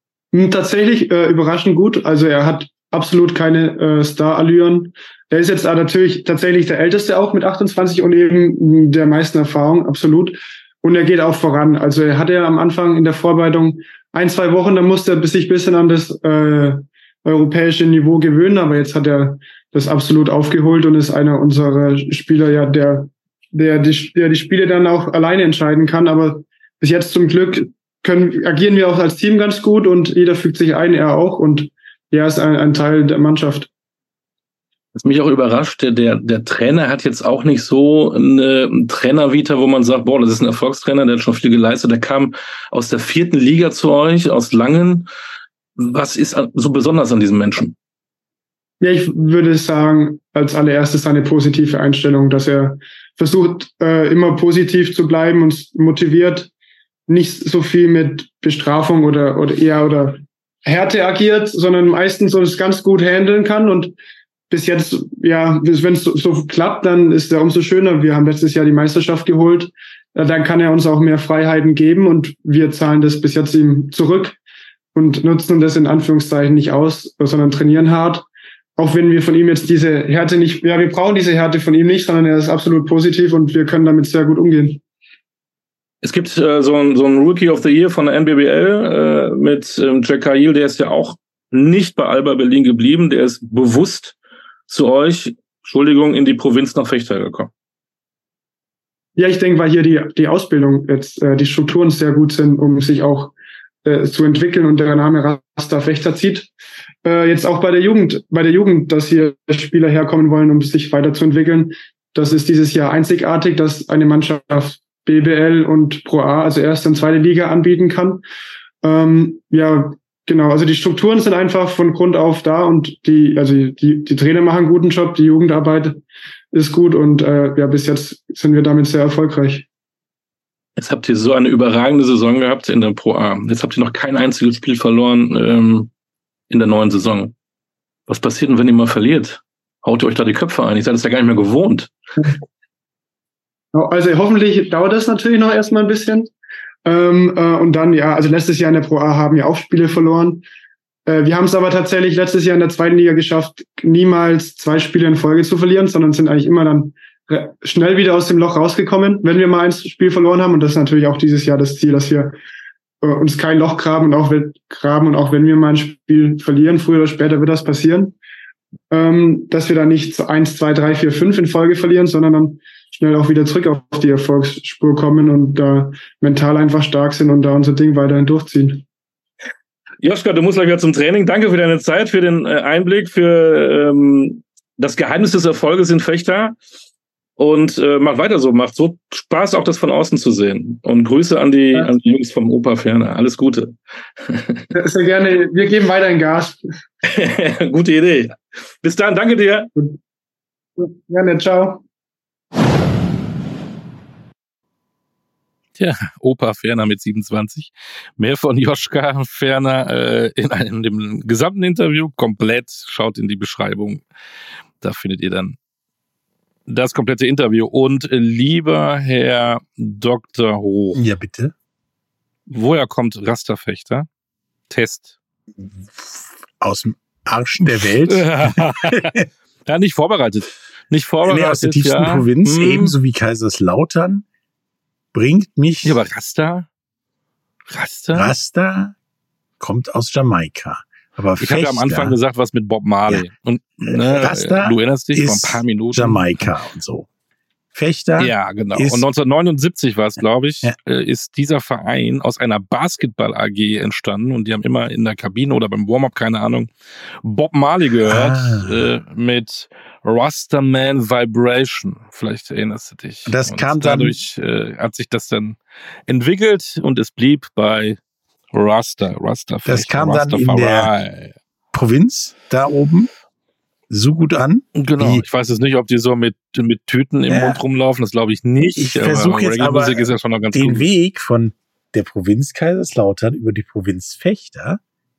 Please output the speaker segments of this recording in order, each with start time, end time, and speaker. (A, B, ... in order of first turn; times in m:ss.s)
0:00.3-0:33.7 A
0:35.0-0:45.1 B
0:45.8-0:47.7 B
0:48.8-0:56.5 A
0:57.1-1:03.9 A
1:04.5-1:14.4 A
1:14.9-1:18.2 A
1:18.8-1:24.8 A
1:26.0-1:34.2 B
1:34.7-1:37.5 B
1:39.2-1:46.5 A
1:47.0-1:58.2 A
1:58.8-2:09.6 A
2:10.8-2:15.9 B
2:16.5-2:17.3 B
2:18.1-2:21.9 B
2:23.7-2:26.3 A
2:26.8-2:30.4 A
2:31.0-2:42.3 A
2:43.0-2:48.2 A
2:48.9-2:58.8 A
3:00.0-3:06.6 B
3:07.4-3:13.7 B
3:14.3-3:14.6 B
3:14.7-3:16.6 A
3:17.1-3:19.7 B
3:20.8-3:21.8 A
3:25.8-3:34.0 B
3:34.8-3:35.6 B
3:36.7-3:41.0 B
3:40.9-3:41.5 C
3:42.5-3:44.1 B
3:44.7-3:45.1 B
3:45.9-3:49.2 C
3:47.6-3:49.1 B
3:49.6-3:52.9 B
3:51.2-3:54.2 C
3:55.1-3:56.0 C
3:55.8-3:56.7 B
3:57.7-3:58.3 B
3:58.1-3:58.9 C
3:59.6-4:02.2 C
4:01.4-4:06.3 B
4:03.8-4:07.1 C
4:07.7-4:09.0 C
4:08.2-4:16.7 B
4:17.2-4:25.6 B
4:18.0-4:18.8 C
4:23.2-4:24.2 C
4:26.1-4:28.0 B
4:28.5-4:31.3 B
4:29.6-4:30.9 C
4:31.7-4:33.1 C
4:33.9-4:35.2 C
4:34.8-4:40.9 B
4:37.3-4:37.6 C
4:38.8-4:44.8 C